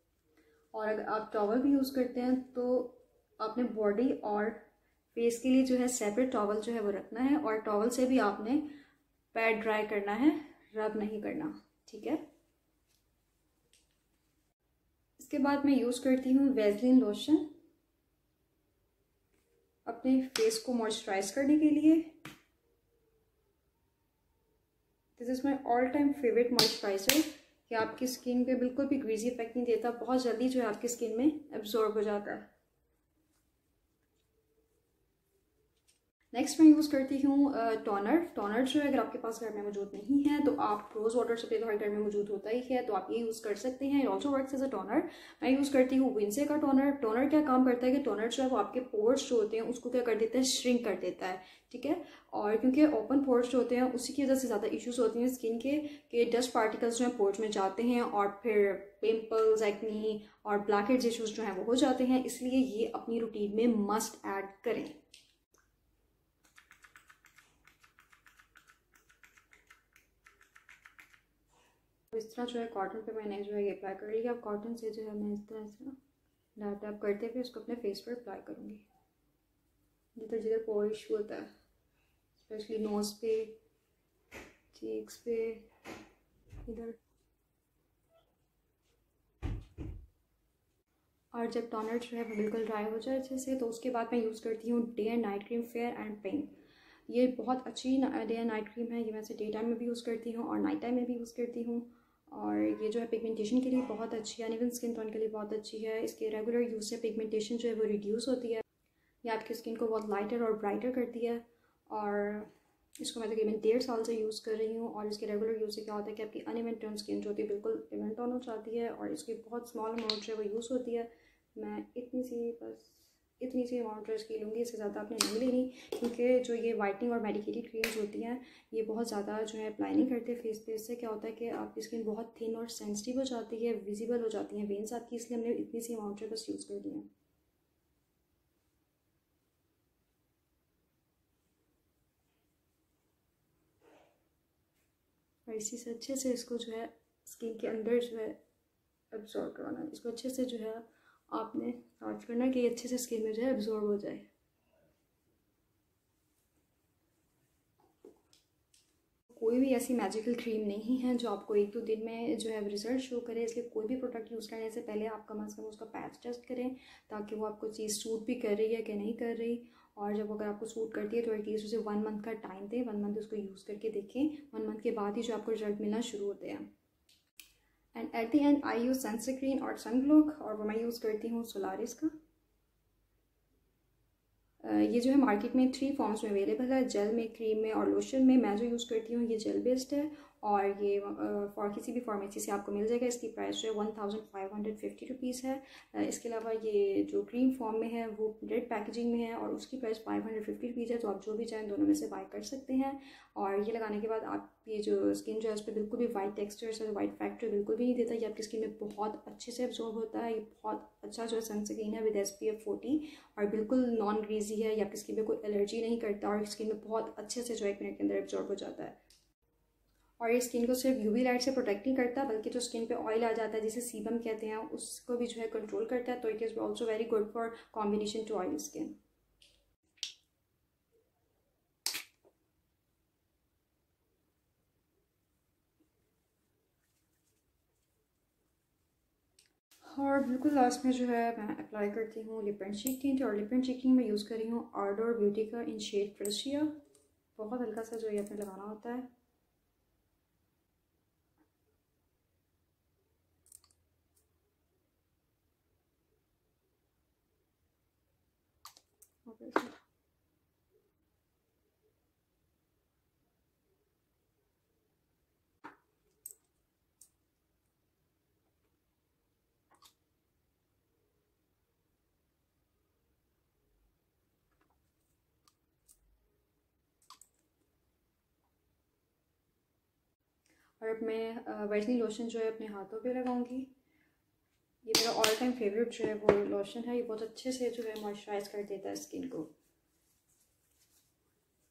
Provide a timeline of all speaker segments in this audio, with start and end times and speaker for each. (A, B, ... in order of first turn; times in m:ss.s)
0:00.7-0:08.7 A
0:09.3-0:12.2 A
0:15.2-0:17.5 A
0:19.8-0:22.2 A
0:25.2-0:32.5 A
0:36.3-1:05.0 A
1:12.1-1:16.0 A
1:16.6-1:18.8 A
1:20.2-1:21.5 A
1:22.4-1:23.6 A
1:24.7-1:25.7 A
1:26.6-1:27.0 A
1:31.3-1:36.5 A
1:37.1-1:48.6 A
1:49.2-2:17.1 A
2:25.4-2:28.4 A
2:29.1-2:34.2 A
2:39.4-2:56.7 A
2:57.9-3:02.1 A
3:04.6-3:39.0 A
3:40.2-3:49.0 A
3:59.8-4:06.8 A
4:07.4-4:09.1 A
4:19.2-4:19.8 A
4:40.8-4:43.7 A
4:44.8-4:49.5 A